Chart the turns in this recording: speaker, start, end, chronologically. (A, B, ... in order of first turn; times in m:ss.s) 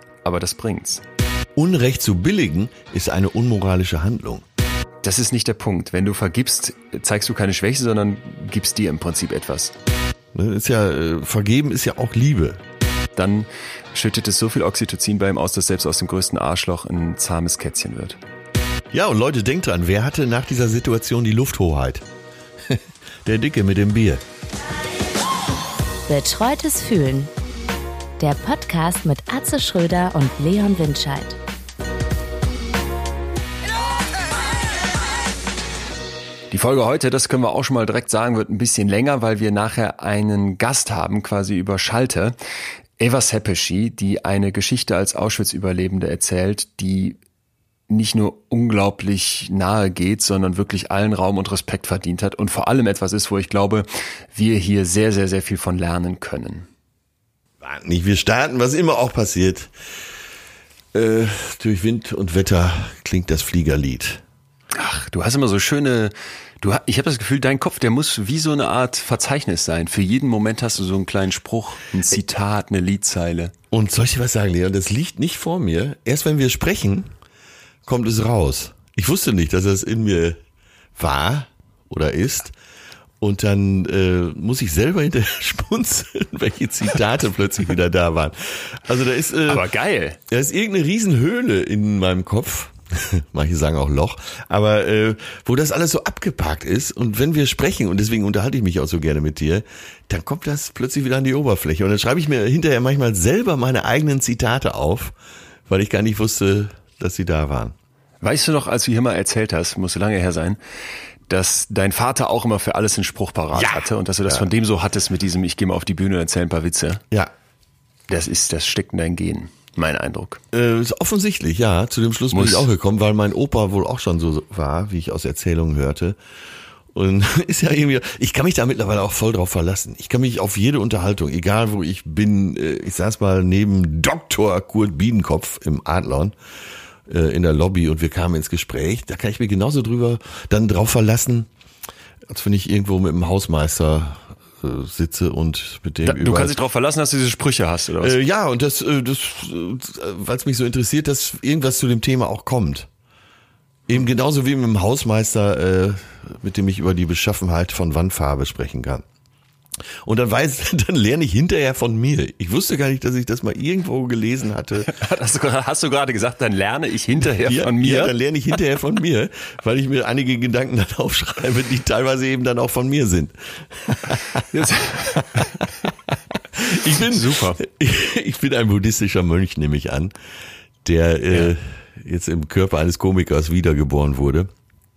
0:00.2-0:01.0 A
0:01.5-0:04.4 B
0:05.0-0:09.7 A
0:10.3-0:12.6 B
0:13.1-0:18.2 A
0:18.9-0:22.1 B
0:22.6-0:24.2 B
0:26.1-0:27.3 C
0:28.2-0:31.4 C
0:36.5-0:42.4 A
0:43.0-0:47.2 A
0:47.9-0:56.7 A
0:57.6-0:59.7 B
1:00.9-1:04.2 B
1:04.7-1:13.5 A
1:13.7-1:17.1 B
1:17.8-1:20.4 B
1:21.0-1:22.5 B
1:23.2-1:29.7 B
1:29.4-1:30.2 A
1:30.3-1:45.2 B
1:45.7-1:47.7 B
1:48.2-1:50.6 A
1:51.3-1:57.0 A
1:53.5-1:54.4 B
1:58.1-2:00.4 A
2:00.5-2:06.2 B
2:02.3-2:02.6 A
2:06.9-2:16.4 B
2:17.1-2:21.5 B
2:22.3-2:26.5 B
2:26.0-2:28.2 A
2:28.0-2:32.9 B
2:33.9-2:39.0 B
2:40.0-2:44.9 B
2:44.8-2:48.1 A
2:47.4-3:00.1 B
2:54.4-2:55.6 A
2:56.8-2:57.6 A
3:00.8-3:04.5 B